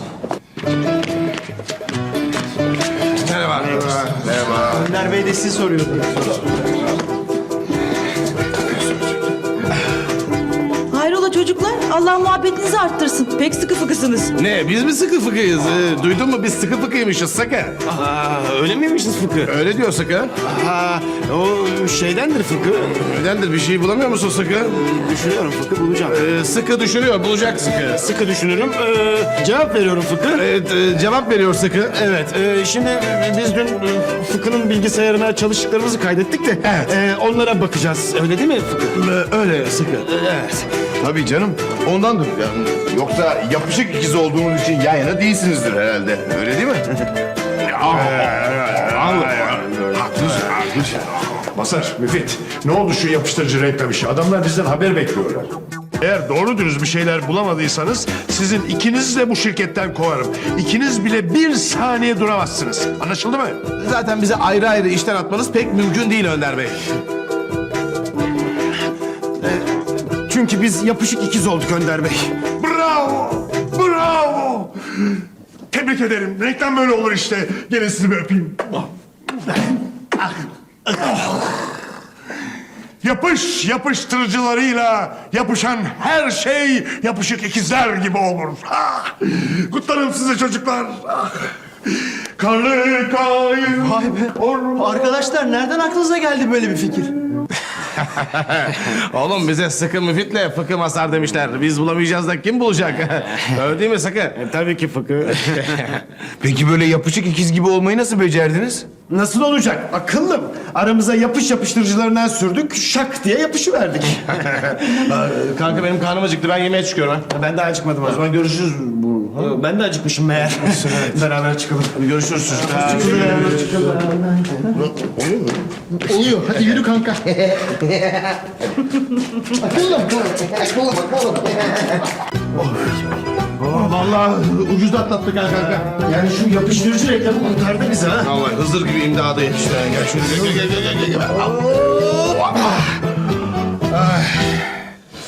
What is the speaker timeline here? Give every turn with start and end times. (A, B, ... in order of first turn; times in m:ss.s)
0:03.1-0:05.0 A
0:04.7-0:06.4 B
0:10.9-0:14.3 C
0:14.4-0:17.8 A
0:17.9-0:19.5 B
0:19.4-0:20.3 A
0:20.4-0:23.0 B
0:23.0-0:24.8 A
0:24.8-0:26.2 B
0:26.0-0:28.1 A
0:28.0-0:30.4 B
0:30.3-0:32.0 A
0:31.9-0:39.0 B
0:39.2-0:39.9 D
0:40.1-0:40.4 B
0:41.0-0:46.8 D
0:47.7-0:50.8 E
0:51.5-1:03.6 E
1:03.7-1:06.8 A
1:10.3-1:12.4 B
1:12.5-1:14.7 E
1:15.7-1:18.9 E
1:23.0-1:31.5 E
1:32.4-1:35.1 E
1:33.8-1:37.1 B
1:38.0-1:44.4 A
1:44.4-1:45.4 B
1:45.3-1:46.0 A
1:46.4-1:47.9 D
1:48.1-1:48.8 A
1:49.1-1:54.4 B
1:54.4-1:57.3 A
1:57.3-1:58.2 B
1:58.0-1:59.5 A
1:59.3-2:04.7 B
2:00.8-2:01.0 A
2:02.0-2:03.7 A
2:04.7-2:08.1 A
2:09.6-2:11.6 A
2:13.6-2:15.9 A
2:15.9-2:18.3 B
2:18.2-2:22.8 A
2:23.9-2:24.6 A